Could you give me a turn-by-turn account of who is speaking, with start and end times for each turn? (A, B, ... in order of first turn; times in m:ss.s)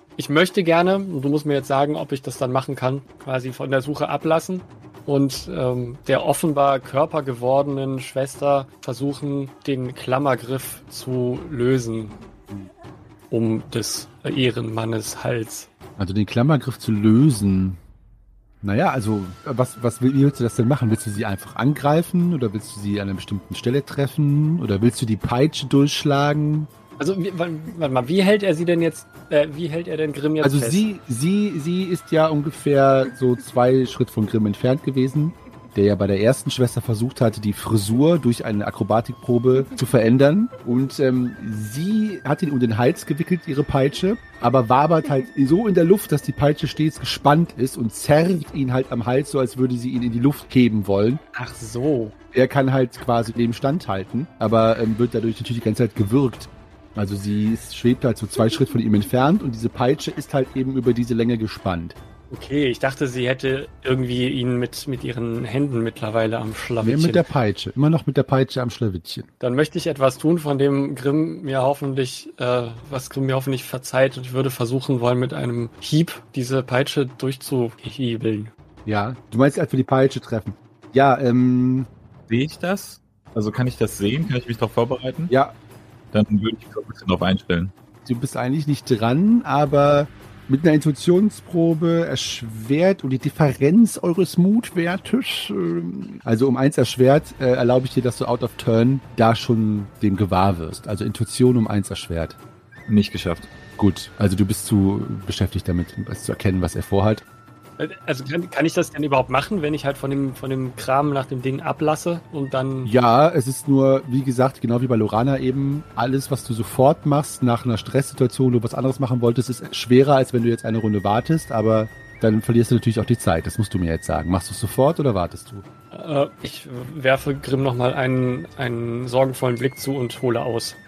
0:00.2-0:12.1 A
0:13.3-0:15.7 A
0:16.0-0:17.8 B
0:18.6-0:26.7 B
0:27.0-0:30.8 A
0:30.4-0:51.2 B
0:51.3-0:52.1 A
0:52.3-1:02.0 B
1:02.3-1:07.2 A
1:06.8-1:09.3 B
1:09.4-1:18.5 A
1:18.8-1:21.9 B
1:22.3-1:25.3 C
1:25.3-1:25.5 B
1:26.1-1:27.7 C
1:28.0-1:42.4 B
1:42.9-1:43.5 C
1:43.8-1:47.2 B
1:47.8-1:52.9 A
1:52.8-2:05.6 B
2:05.9-2:10.8 A